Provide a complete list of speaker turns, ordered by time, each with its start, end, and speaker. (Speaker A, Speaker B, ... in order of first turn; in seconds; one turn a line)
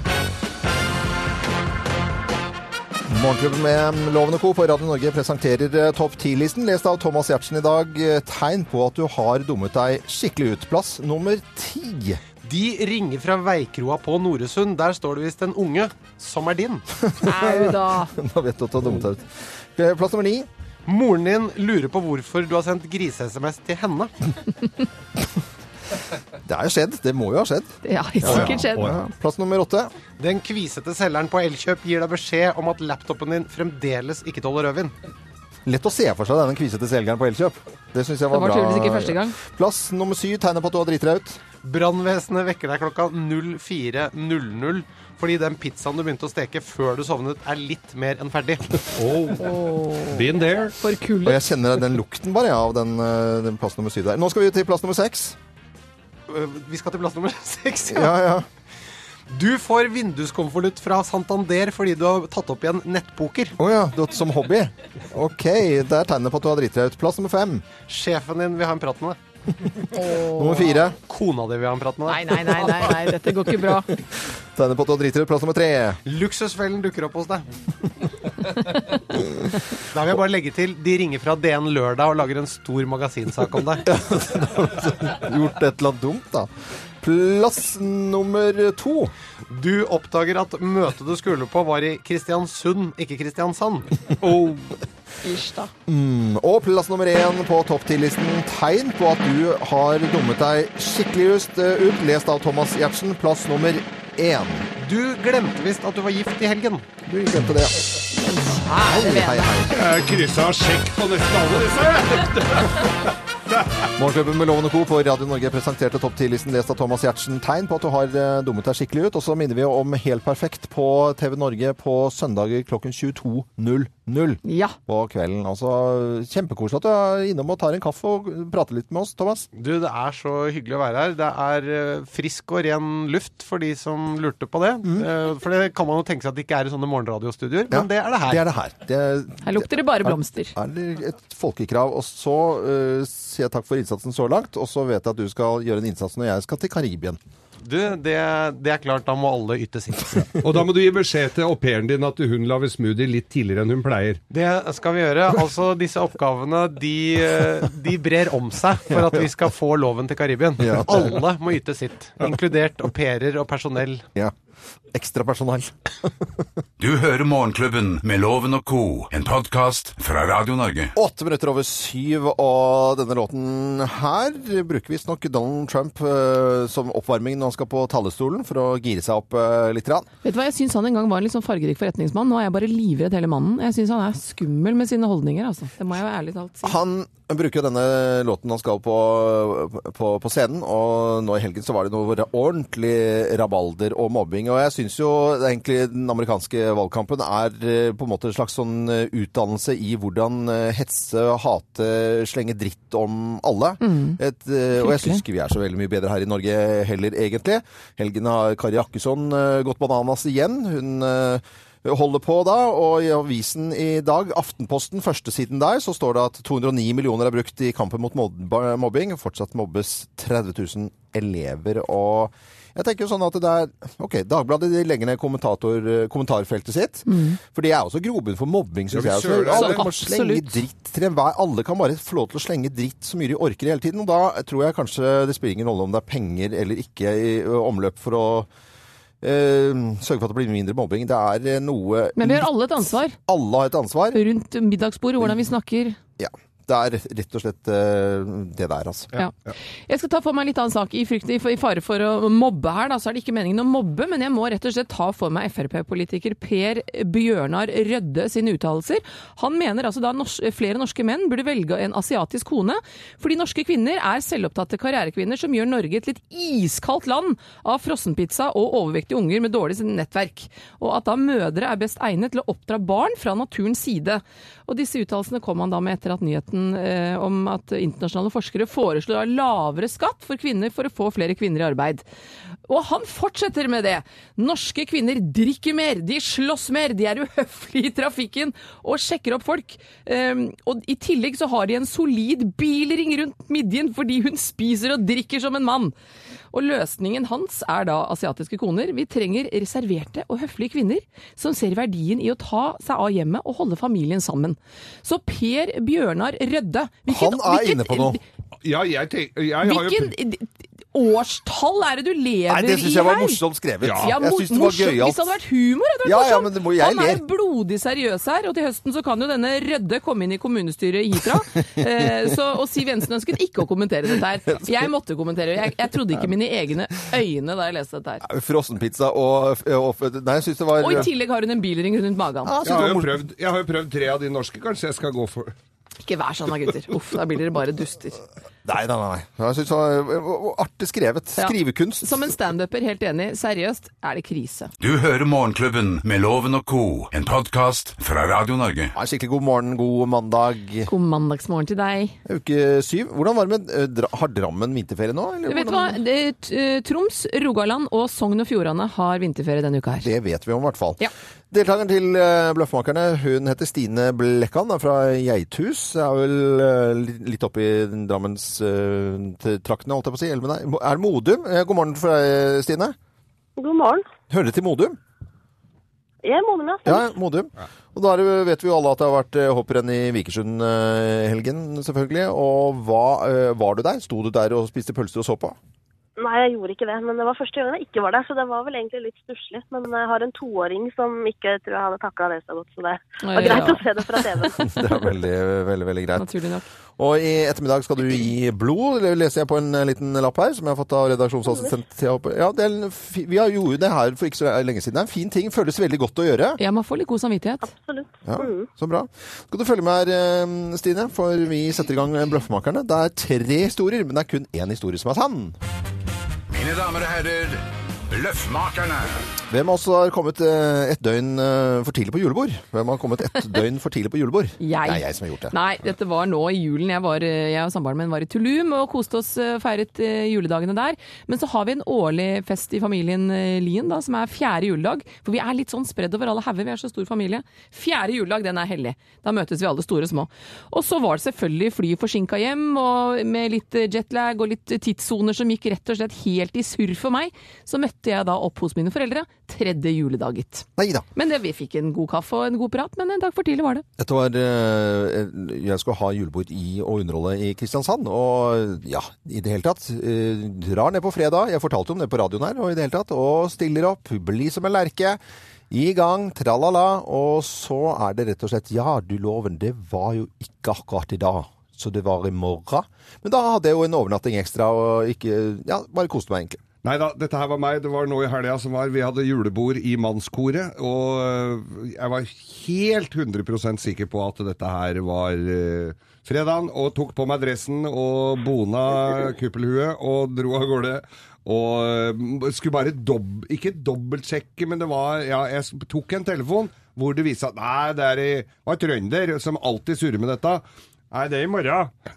Speaker A: 3.1-12.2
Speaker B: 12.4-16.8
Speaker A: 17.1-20.5
Speaker C: 17.2-18.1
Speaker B: 20.9-24.1
Speaker A: 26.4-29.9
Speaker C: 27.8-28.9
Speaker D: 28.2-29.0
Speaker B: 30.2-34.9
Speaker A: 35.7-41.4
Speaker C: 38.3-39.4
Speaker B: 41.6-48.8
Speaker D: 48.9-49.5
Speaker C: 49.4-51.4
Speaker D: 50.1-50.8
Speaker A: 51.2-55.4
Speaker B: 56.3-58.2
Speaker A: 57.9-58.5
Speaker B: 59.3-63.6
Speaker A: 63.6-67.6
Speaker B: 67.9-69.2
Speaker C: 69.9-70.8
Speaker A: 70.2-71.0
Speaker B: 71.0-73.0
Speaker C: 72.1-73.9
Speaker A: 74.5-76.0
Speaker B: 76.0-77.5
Speaker B: 79.9-83.9
Speaker A: 83.9-89.1
Speaker B: 89.5-94.0
Speaker D: 94.2-94.8
Speaker C: 95.2-95.7
Speaker A: 95.9-104.7
Speaker B: 104.8-106.9
Speaker A: 107.0-108.0
Speaker C: 108.2-109.5
Speaker A: 108.8-109.8
Speaker D: 109.7-113.0
Speaker D: 113.5-113.9
Speaker A: 114.0-129.5
Speaker C: 124.5-124.8
Speaker B: 129.6-138.4
Speaker A: 137.7-147.2
Speaker C: 139.4-140.5
Speaker B: 147.6-150.3
Speaker D: 150.4-154.2
Speaker B: 154.3-164.1
Speaker A: 160.6-161.2
Speaker A: 164.9-166.2
Speaker E: 166.8-170.9
Speaker A: 170.9-180.1
Speaker C: 180.2-186.8
Speaker A: 186.6-238.5
Speaker C: 203.8-204.2
Speaker C: 204.8-205.2
Speaker C: 227.1-227.4
Speaker D: 228.9-229.8
Speaker C: 229.5-230.6
Speaker A: 239.2-244.2
Speaker C: 242.2-243.2
Speaker C: 244.1-246.0
Speaker A: 246.2-249.1
Speaker C: 249.9-282.0
Speaker C: 282.7-295.9
Speaker C: 296.5-308.2
Speaker A: 307.1-308.2
Speaker D: 308.6-310.1
Speaker C: 309.6-313.4
Speaker A: 312.5-315.4
Speaker D: 313.8-314.1
Speaker C: 314.0-328.2
Speaker A: 316.0-317.2
Speaker A: 328.2-331.1
Speaker C: 330.8-332.5
Speaker A: 332.4-333.2
Speaker D: 332.6-335.6
Speaker C: 336.0-338.2
Speaker A: 338.6-342.3
Speaker C: 341.4-344.7
Speaker E: 344.8-348.9
Speaker A: 348.9-350.9
Speaker C: 350.9-352.2
Speaker A: 352.3-356.0
Speaker C: 355.5-360.1
Speaker A: 360.0-372.9
Speaker F: 373.6-374.1
Speaker A: 374.3-375.0
Speaker F: 376.2-377.1
Speaker A: 376.9-385.6
Speaker F: 386.2-394.8
Speaker C: 393.2-393.8
Speaker A: 394.5-396.3
Speaker C: 396.2-396.7
Speaker A: 397.0-406.6
Speaker C: 406.6-407.7
Speaker F: 407.6-408.7
Speaker A: 408.2-415.6
Speaker E: 416.5-419.2
Speaker A: 419.5-425.6
Speaker C: 424.6-453.9
Speaker A: 450.8-451.1
Speaker A: 454.0-476.6
Speaker D: 476.8-501.9